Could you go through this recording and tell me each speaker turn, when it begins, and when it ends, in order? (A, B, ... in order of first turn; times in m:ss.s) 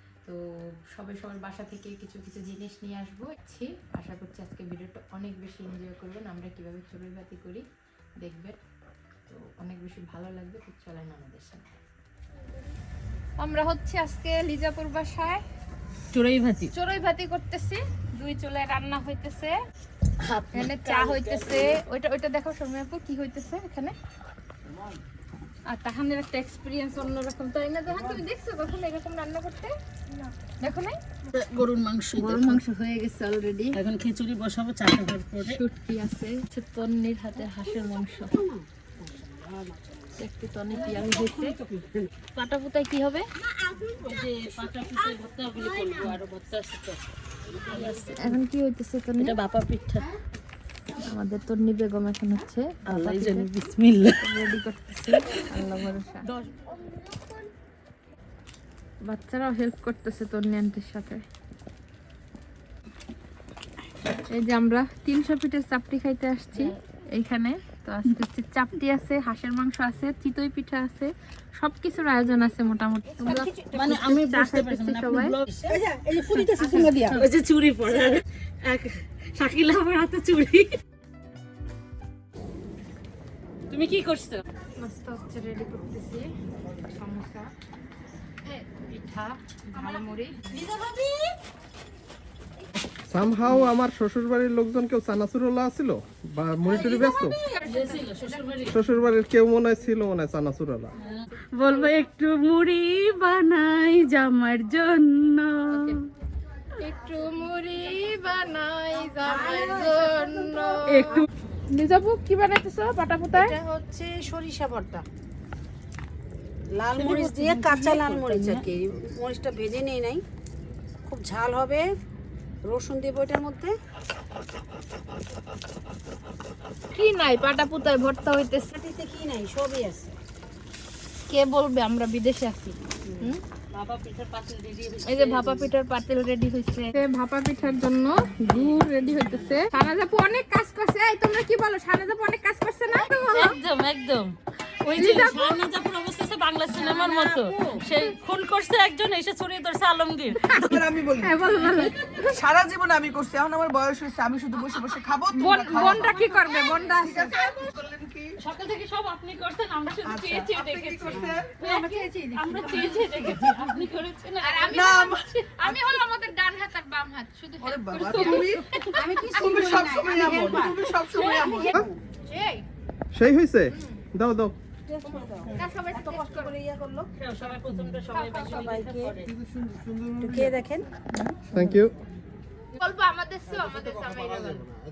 0:00.9-0:07.6 A
0:08.2-0:08.6 A
0:09.3-0:11.6 A
0:13.4-0:15.4 A
0:16.1-0:16.7 B
0:16.8-0:19.5 A
0:20.3-0:21.8 B
0:20.5-0:23.9 A
0:25.7-0:29.7 A
0:30.2-0:30.9 A
0:31.4-0:32.6 C
0:32.2-0:33.8 A
0:33.8-0:35.6 C
0:34.8-0:35.5 B
0:35.5-0:38.3 A
0:37.4-0:42.1 C
0:40.2-0:41.6 A
0:42.4-0:43.2 A
0:43.4-0:46.2 C
0:44.0-0:47.0 B
0:47.5-0:47.9 C
0:47.7-0:48.4 B
0:47.8-0:49.4 A
0:49.2-0:50.1 B
0:51.1-0:53.5 A
0:52.9-0:54.2 B
0:54.2-0:56.2 A
0:56.3-0:56.7 B
0:59.1-1:01.2 A
1:04.4-1:11.1 A
1:11.6-1:15.4 A
1:13.2-1:14.2 C
1:13.7-1:20.8 B
1:14.8-1:17.2 C
1:16.6-1:16.9 A
1:23.7-1:24.4 B
1:24.8-1:26.2 A
1:26.9-1:27.5 A
1:28.5-1:30.4 A
1:29.8-1:31.4 C
1:33.1-1:37.4 D
1:36.6-1:37.9 C
1:37.6-1:38.8 B
1:38.7-1:40.9 D
1:41.0-1:45.8 B
1:46.8-1:53.5 A
1:49.2-1:51.2 C
1:50.9-1:51.3 B
1:53.3-1:55.0 C
1:56.8-2:00.2 C
1:56.9-1:58.6 B
2:01.1-2:01.8 C
2:02.6-2:03.7 C
2:06.9-2:08.7 A
2:08.7-2:10.2 C
2:11.3-2:13.4 A
2:13.7-2:15.7 B
2:15.1-2:23.6 A
2:18.5-2:19.6 B
2:23.3-2:30.6 B
2:25.0-2:25.6 A
2:26.7-2:27.8 C
2:30.4-2:31.4 E
2:31.2-2:32.3 A
2:31.5-2:32.0 B
2:32.3-2:36.3 E
2:34.7-2:37.3 A
2:35.7-2:36.9 B
2:36.5-2:37.1 C
2:36.9-2:38.3 E
2:38.4-2:45.2 B
2:40.0-2:41.5 E
2:41.1-2:41.4 C
2:41.6-2:42.9 A
2:44.4-2:48.6 A
2:44.7-2:45.8 E
2:47.6-2:48.7 E
2:48.1-2:48.9 B
2:48.9-2:52.0 C
2:49.5-2:51.7 E
2:51.2-2:51.6 A
2:52.3-2:52.6 A
2:53.1-2:54.6 D
2:53.7-2:54.0 A
2:54.9-2:57.1 C
2:55.5-2:56.5 A
2:57.2-2:59.3 B
2:58.1-2:58.6 A
2:58.3-2:59.1 C
2:59.5-3:00.5 D
3:00.2-3:00.9 C
3:01.5-3:02.0 D
3:02.7-3:04.7 A